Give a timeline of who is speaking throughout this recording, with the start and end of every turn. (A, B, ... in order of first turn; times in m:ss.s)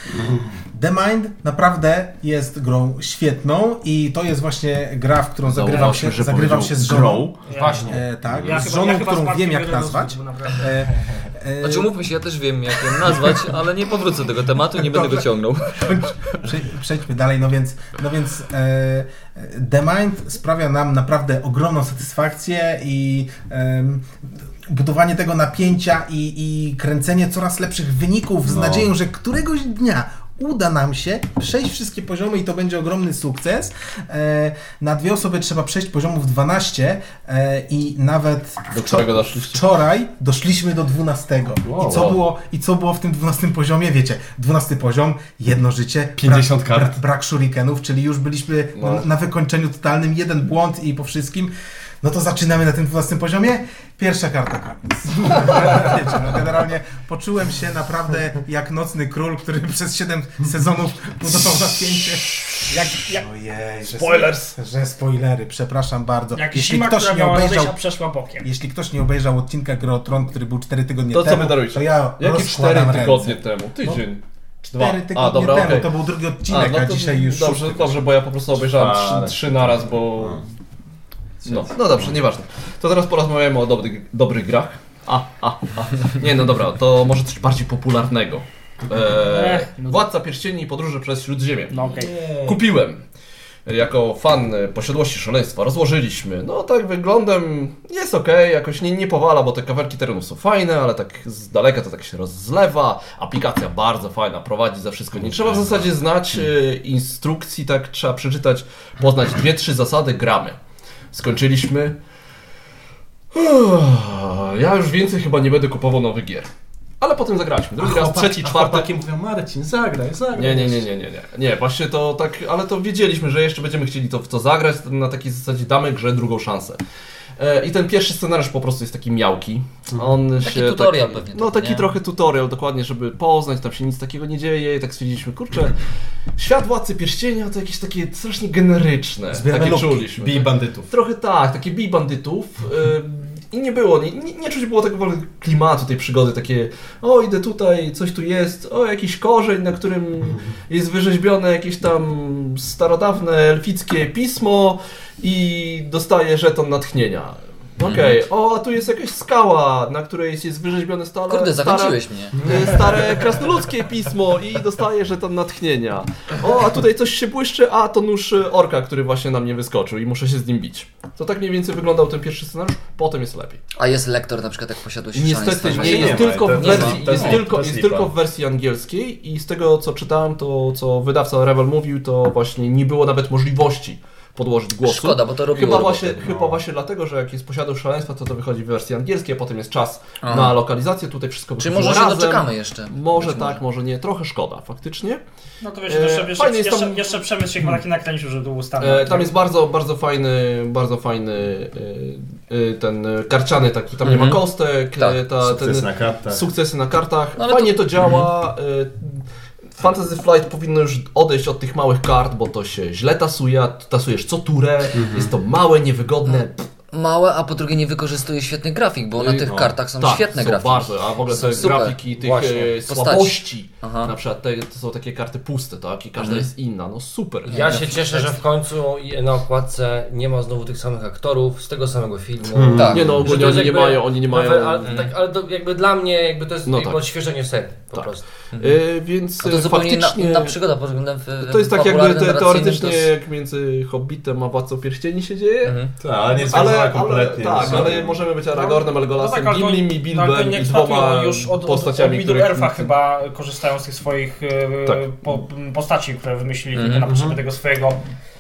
0:00.1-0:00.5 A
0:00.6-0:12.0 B
0:05.5-0:07.3 C
0:07.5-0:10.8 D
0:07.5-0:08.0 E
0:08.3-0:08.7 A
0:11.6-0:16.1 F
0:14.7-0:24.1 B
0:24.7-1:07.8 B
0:28.5-0:28.9 A
0:38.7-0:39.6 C
0:41.6-0:42.2 A
0:46.2-0:47.0 A
0:48.8-0:49.1 C
1:02.7-1:03.2 D
1:03.8-1:04.6 C
1:06.3-1:08.5 D
1:08.4-1:14.0 B
1:11.1-1:15.9 C
1:14.7-1:18.0 B
1:16.5-1:20.4 C
1:18.6-1:20.4 A
1:21.4-1:22.0 A
1:21.4-1:33.0 C
1:29.2-1:30.0 D
1:31.7-1:32.3 D
1:33.7-1:50.6 C
1:45.2-1:45.9 A
1:51.1-1:52.0 C
1:53.3-1:56.5 C
1:57.0-1:58.9 C
1:57.8-2:00.9 A
2:00.3-2:06.8 C
2:07.4-2:15.8 C
2:10.4-2:11.9 F
2:16.4-2:53.6 C
2:19.3-2:20.0 B
2:20.1-2:20.9 A
2:37.8-2:38.2 F
2:41.3-2:42.6 F
2:53.8-2:57.4 F
2:55.2-3:15.2 C
2:55.7-2:58.1 A
3:04.8-3:06.3 F
3:06.2-3:06.6 A
3:10.2-3:10.6 F
3:11.6-3:13.6 F
3:15.6-3:19.3 D
3:15.9-3:17.2 C
3:18.8-3:36.7 C
3:24.0-3:24.4 F
3:25.4-3:26.4 A
3:27.4-3:28.3 F
3:35.0-3:35.3 A
3:36.9-3:42.0 F
3:39.2-3:47.9 C
3:39.4-3:39.7 A
3:41.6-3:42.8 E
3:42.9-3:44.1 F
3:46.2-3:46.5 F
3:47.5-3:58.2 E
3:47.5-3:48.3 F
3:52.5-3:53.3 A
3:52.7-3:53.1 F
3:52.9-3:55.1 C
3:54.8-3:55.1 F
3:56.7-3:57.0 C
3:57.9-4:00.6 C
3:58.5-3:58.8 F
3:59.4-4:03.1 F
4:01.4-4:05.8 C
4:05.6-4:05.9 F
4:06.0-4:08.3 A
4:06.4-4:12.9 C
4:08.4-4:18.0 D
4:16.8-4:17.1 F
4:17.0-4:17.4 A